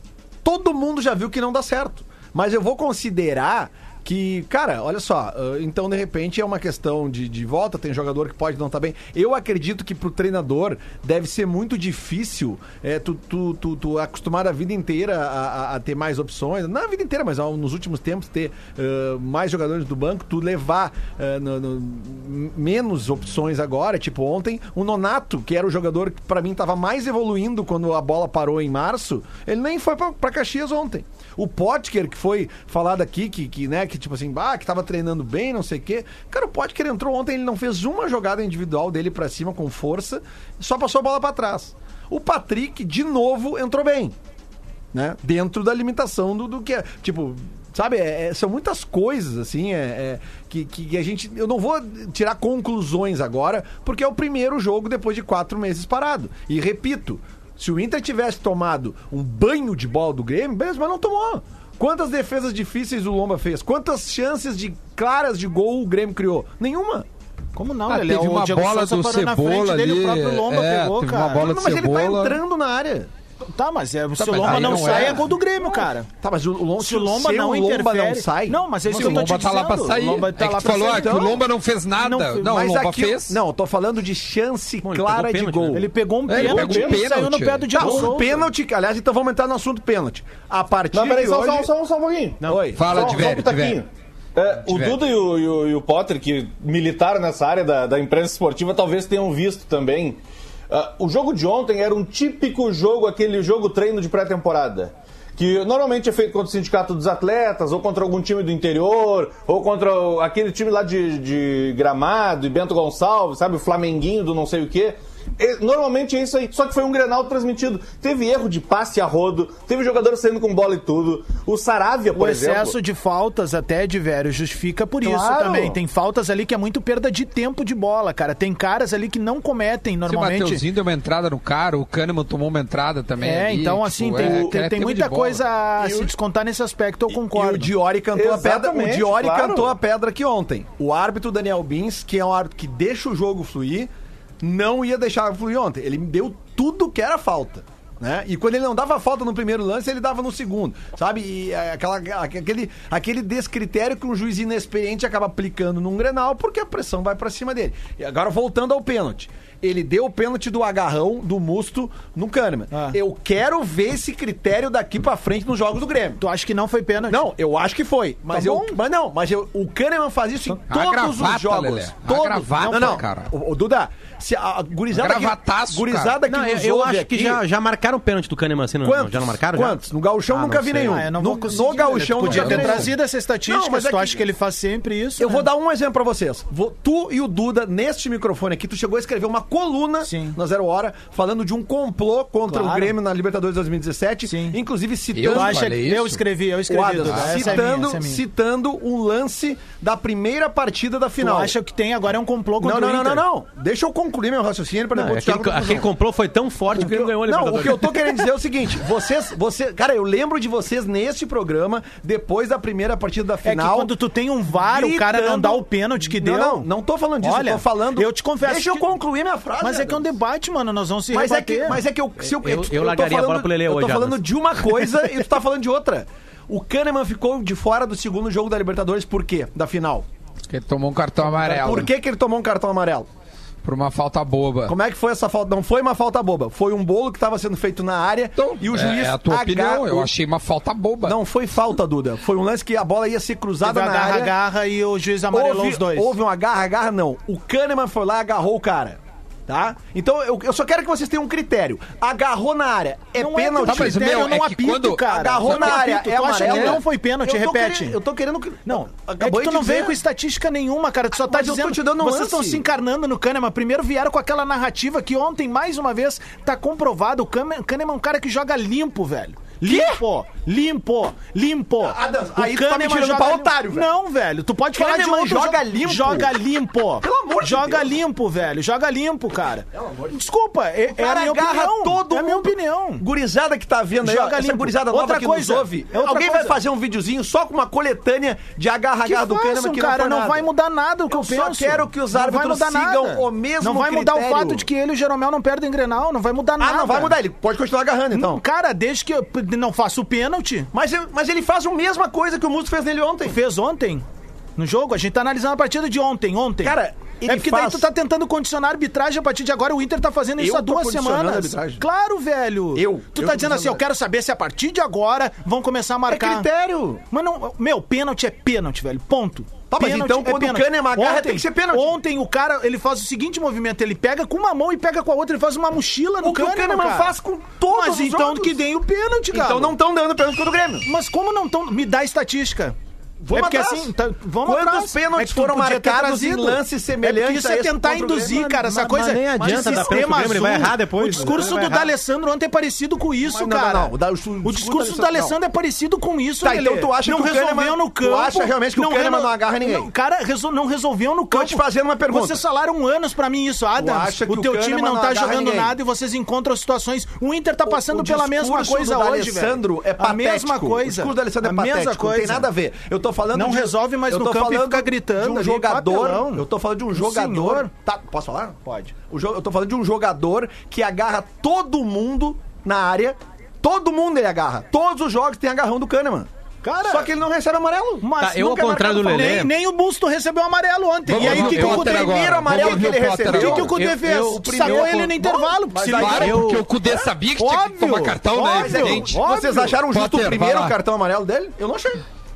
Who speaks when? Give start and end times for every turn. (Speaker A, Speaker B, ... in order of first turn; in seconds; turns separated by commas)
Speaker A: 0.4-44.2, Speaker A: 44.9-67.1, Speaker B: 67.6-71.4, Speaker C: 67.9-72.4, Speaker A: 71.3-73.1, Speaker B: 73.5-76.1, Speaker C: 74.2-75.3, Speaker A: 74.4-78.6, Speaker B: 76.8-81.4, Speaker C: 78.8-83.4, Speaker A: 80.6-81.4, Speaker B: 82.0-82.6, Speaker A: 82.4-85.9, Speaker D: 84.8-85.9, Speaker B: 85.7-88.4, Speaker C: 86.3-87.7, Speaker E: 86.4-87.0, Speaker A: 87.7-91.7, Speaker E: 90.9-122.8, Speaker A: 92.5-93.2, Speaker C: 92.8-93.8, Speaker C: 94.7-95.0, Speaker B: 122.1-130.6, Speaker E: 125.0-125.8, Speaker C: 130.1-135.4, Speaker B: 133.2-137.7, Speaker E: 134.2-134.5, Speaker A: 135.8-136.1, Speaker A: 137.1-143.9, Speaker E: 138.1-139.7, Speaker A: 144.4-166.2, Speaker B: 166.2-167.3, Speaker A: 167.1-177.4, Speaker B: 168.3-168.8, Speaker C: 170.7-173.3, Speaker C: 174.9-176.2, Speaker D: 176.3-181.1, Speaker A: 178.8-182.9, Speaker B: 180.8-185.5, Speaker C: 182.3-182.9, Speaker A: 183.5-184.2, Speaker A: 185.2-195.8, Speaker B: 190.0-190.4, Speaker B: 192.5-192.9, Speaker B: 194.3-194.6, Speaker C: 195.1-196.2, Speaker B: 195.3-198.2, Speaker A: 196.7-201.6, Speaker C: 197.0-197.4, Speaker B: 201.2-203.2, Speaker A: 202.6-205.9, Speaker D: 204.9-208.0, Speaker A: 206.7-213.9, Speaker B: 213.4-216.7, Speaker A: 214.5-220.1, Speaker B: 217.2-218.8, Speaker B: 219.6-221.8, Speaker A: 221.1-230.1, Speaker D: 222.2-224.2, Speaker C: 230.5-231.9, Speaker A: 231.2-233.1, Speaker C: 233.6-234.7, Speaker A: 234.7-240.1, Speaker C: 238.4-241.2, Speaker A: 241.0-244.3, Speaker B: 243.6-246.1, Speaker A: 245.3-254.2, Speaker B: 253.2-258.0, Speaker C: 253.7-255.8, Speaker A: 255.1-260.0, Speaker C: 256.4-256.8, Speaker B: 258.7-283.1, Speaker A: 261.2-262.7, Speaker A: 269.6-270.0, Speaker A: 271.8-273.9, Speaker A: 274.7-276.4, Speaker A: 277.0-278.0, Speaker A: 279.7-280.1, Speaker A: 280.9-290.5, Speaker B: 284.0-286.6, Speaker B: 289.1-297.2, Speaker A: 291.1-294.7, Speaker A: 296.6-298.4, Speaker B: 298.1-300.7, Speaker A: 300.7-303.4, Speaker B: 303.2-304.1, Speaker B: 304.6-316.5, Speaker A: 306.6-307.9, Speaker A: 310.4-311.8, Speaker A: 312.8-313.8, Speaker A: 316.1-317.0, Speaker B: 317.1-327.1, Speaker A: 319.7-322.0, Speaker A: 326.2-328.6, Speaker B: 327.7-329.8, Speaker A: 329.3-330.9, Speaker B: 330.9-332.8, Speaker A: 333.2-333.9, Speaker B: 333.3-362.5, Speaker A: 334.4-340.3, Speaker D: 338.6-341.9, Speaker A: 341.1-341.5, Speaker A: 343.2-345.4, Speaker A: 346.4-349.9, Speaker A: 351.3-352.4, Speaker A: 353.8-355.8, Speaker A: 357.6-376.3, Speaker B: 363.3-367.7, Speaker B: 376.6-377.1, Speaker A: 376.8-379.5, Speaker B: 378.0-386.5, Speaker D: 378.2-379.5, Speaker C: 381.1-383.7, Speaker A: 381.1-387.1, Speaker D: 383.5-385.1, Speaker C: 385.9-389.2, Speaker D: 386.2-386.6, Speaker B: 387.4-389.8, Speaker A: 388.4-392.1, Speaker C: 389.9-390.8